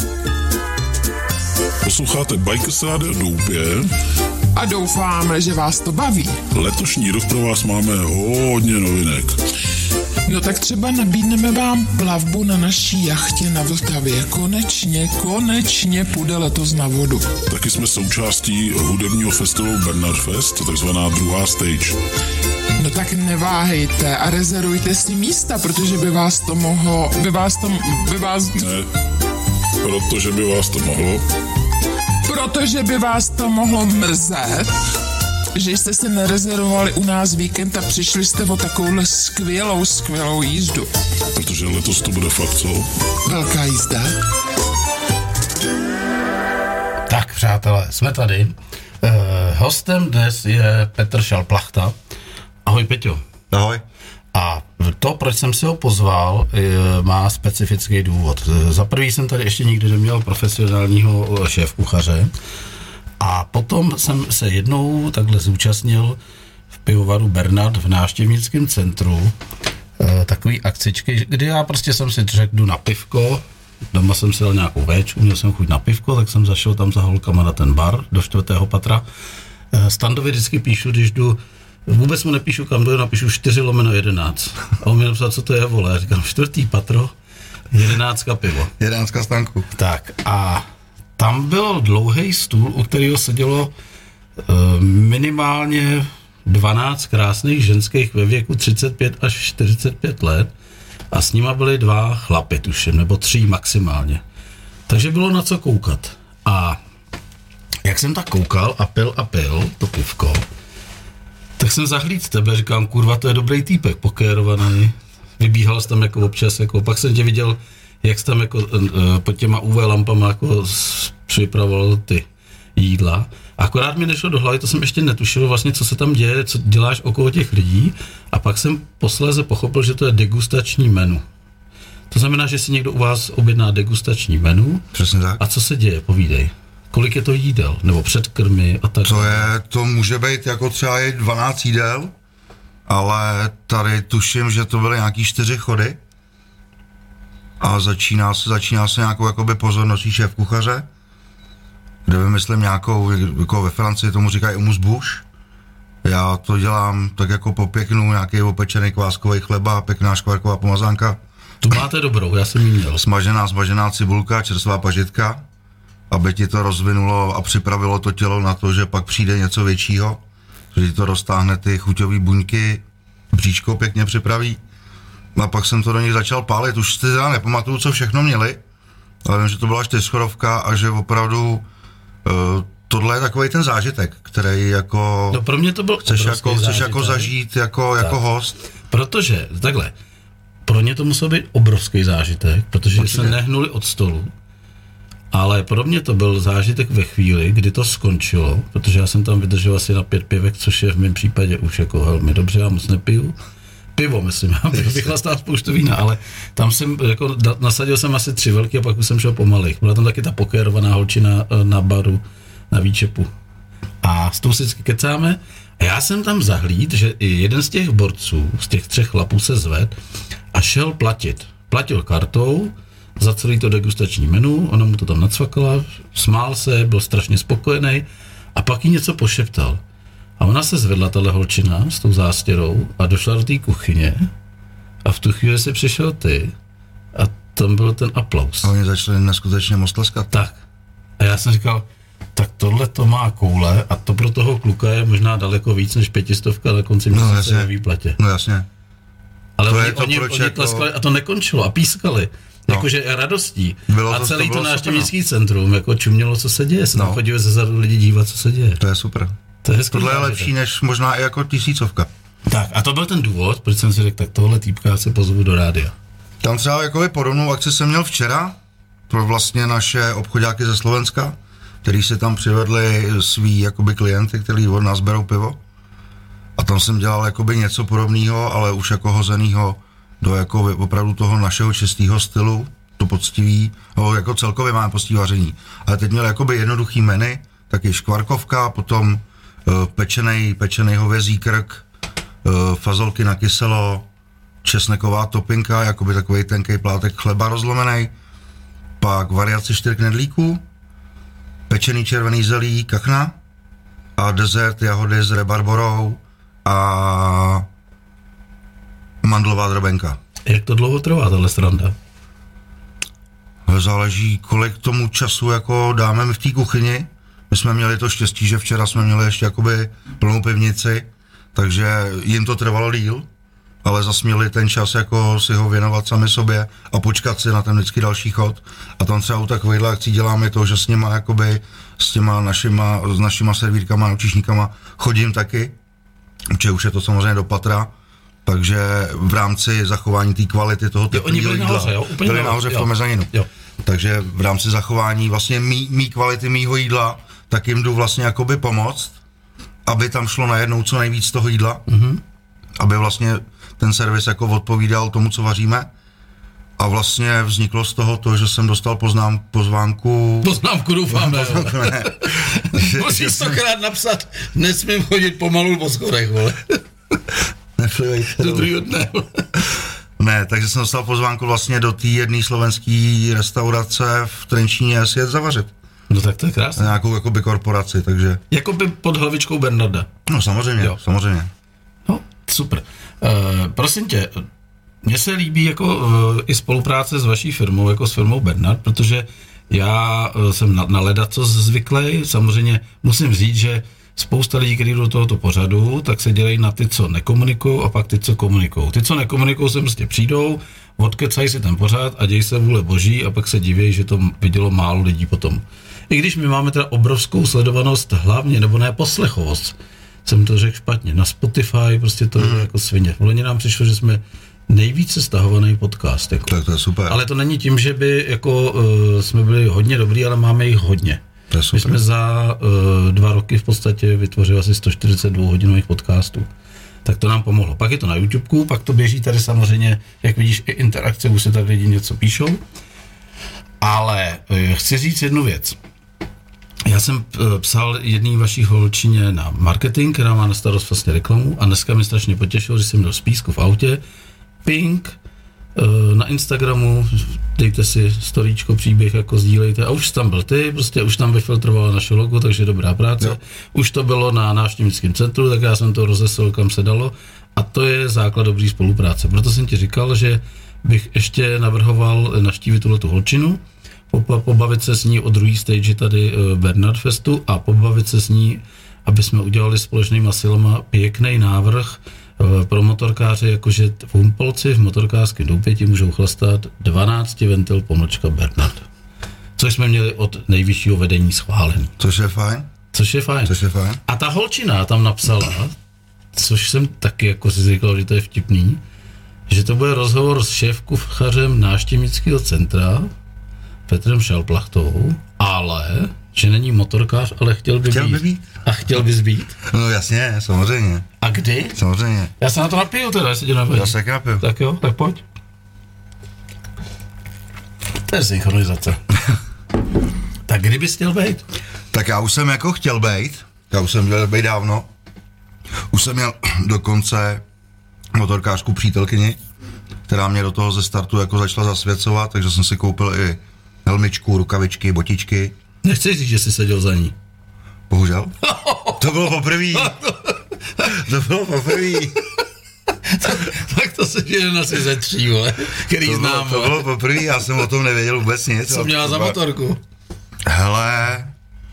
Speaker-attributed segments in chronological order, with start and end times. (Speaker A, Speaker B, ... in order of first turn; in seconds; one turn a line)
Speaker A: 1.8-3.9
Speaker B: 4.5-6.4
Speaker A: 6.5-9.3
Speaker B: 10.3-17.3
Speaker A: 17.5-22.0
Speaker B: 22.8-28.6
Speaker A: 28.6-28.9
Speaker A: 29.8-31.2
Speaker B: 32.2-34.7
Speaker B: 35.5-40.9
Speaker A: 41.3-42.9
Speaker B: 43.2-44.1
Speaker C: 47.1-51.9
Speaker C: 52.6-53.2
Speaker D: 53.5-53.8
Speaker C: 54.3-62.3
Speaker C: 63.2-66.2
Speaker C: 66.8-69.3
Speaker C: 70.0-79.1
Speaker C: 79.7-87.1
Speaker C: 87.7-88.7
Speaker D: 88.8-89.7
Speaker C: 89.7-90.7
Speaker C: 91.2-93.7
Speaker C: 94.4-100.5
Speaker C: 101.1-104.2
Speaker C: 104.9-106.8
Speaker C: 107.8-110.5
Speaker C: 111.6-131.2
Speaker C: 132.1-134.8
Speaker D: 134.9-135.4
Speaker C: 135.4-139.5
Speaker D: 139.0-142.1
Speaker D: 142.9-146.0
Speaker D: 147.6-150.9
Speaker D: 152.1-155.2
Speaker D: 156.0-161.2
Speaker C: 161.6-163.0
Speaker D: 163.0-165.4
Speaker D: 166.1-170.2
Speaker D: 170.7-174.6
Speaker D: 175.3-178.6
Speaker D: 179.2-181.6
Speaker D: 182.2-185.4
Speaker C: 185.3-187.3
Speaker D: 186.0-188.6
Speaker C: 188.9-189.9
Speaker C: 190.6-194.3
Speaker D: 192.9-193.3
Speaker C: 195.3-203.3
Speaker C: 203.9-213.3
Speaker C: 214.0-219.9
Speaker C: 220.5-229.8
Speaker C: 230.4-234.3
Speaker C: 235.0-236.5
Speaker C: 237.1-238.7
Speaker D: 238.6-240.3
Speaker C: 241.2-248.2
Speaker D: 247.1-248.7
Speaker C: 249.6-258.8
Speaker D: 249.7-250.9
Speaker D: 253.9-255.1
Speaker D: 256.9-257.2
Speaker D: 258.8-259.3
Speaker C: 259.6-260.5
Speaker D: 259.9-262.1
Speaker C: 262.5-265.9
Speaker D: 266.4-268.6
Speaker D: 269.1-275.6
Speaker D: 276.6-291.8
Speaker D: 292.4-294.1
Speaker D: 294.6-298.1
Speaker D: 299.0-300.6
Speaker D: 301.7-303.3
Speaker D: 304.2-307.6
Speaker D: 309.2-310.2
Speaker C: 310.4-311.9
Speaker D: 313.7-323.2
Speaker D: 323.8-335.7
Speaker D: 336.5-337.9
Speaker D: 338.4-343.3
Speaker C: 341.1-343.5
Speaker D: 343.8-349.1
Speaker D: 349.8-351.8
Speaker C: 351.9-352.2
Speaker D: 352.8-355.9
Speaker D: 356.8-360.5
Speaker C: 360.4-366.8
Speaker D: 361.1-363.6
Speaker D: 367.8-368.7
Speaker C: 368.3-369.5
Speaker D: 370.2-375.7
Speaker C: 376.1-376.9
Speaker D: 376.8-378.4
Speaker C: 378.5-380.1
Speaker D: 380.2-381.5
Speaker C: 382.1-384.4
Speaker C: 385.0-416.5
Speaker D: 412.4-412.7
Speaker D: 416.5-417.2
Speaker C: 417.1-421.2
Speaker D: 421.5-422.0
Speaker C: 421.7-426.5
Speaker C: 427.0-432.6
Speaker C: 433.8-435.8
Speaker C: 436.8-444.0
Speaker C: 444.6-445.1
Speaker C: 445.7-478.8
Speaker C: 479.6-481.9
Speaker D: 482.0-482.7
Speaker C: 482.9-485.7
Speaker D: 483.4-484.0
Speaker C: 486.3-488.8
Speaker C: 489.5-493.1
Speaker C: 493.9-499.6
Speaker D: 497.9-498.6
Speaker D: 499.6-501.1
Speaker C: 501.2-501.8
Speaker D: 501.7-502.3
Speaker C: 502.4-505.2
Speaker D: 503.7-504.4
Speaker C: 508.1-509.0
Speaker C: 510.4-511.4
Speaker D: 511.9-514.9
Speaker D: 515.9-517.4
Speaker D: 518.1-519.4
Speaker D: 520.1-525.5
Speaker C: 525.8-527.1
Speaker D: 527.9-528.4
Speaker C: 528.4-531.0
Speaker D: 529.0-530.0
Speaker D: 530.8-532.2
Speaker C: 533.0-536.9
Speaker D: 536.0-539.4
Speaker C: 538.6-539.8
Speaker D: 540.5-541.3